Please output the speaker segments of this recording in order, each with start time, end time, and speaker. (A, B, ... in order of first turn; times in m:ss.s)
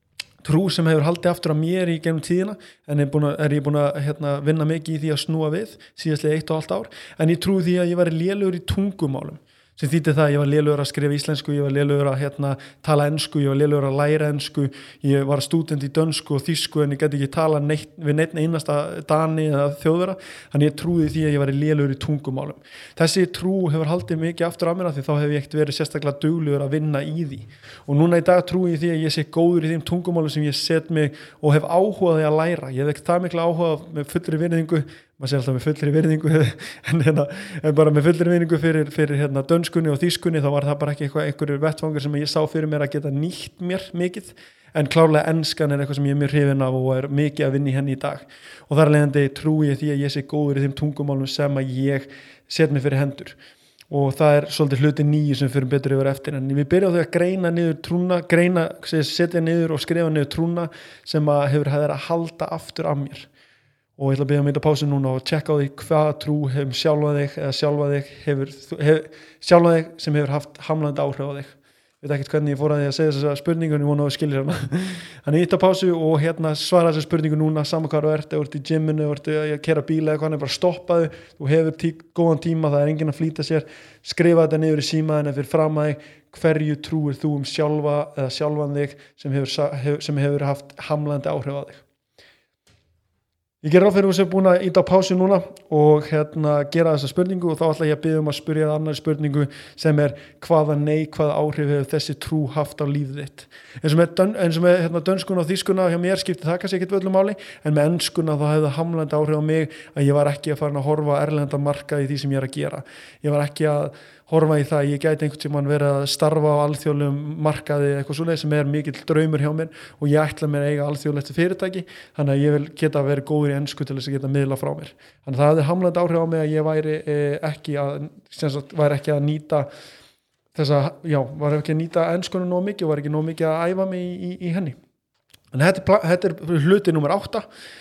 0:00.4-0:53.4 A
0:53.9-1:03.3 A
1:04.0-1:31.8 A
1:33.6-2:09.7 A
2:10.5-2:14.8 A
2:15.5-2:17.4 A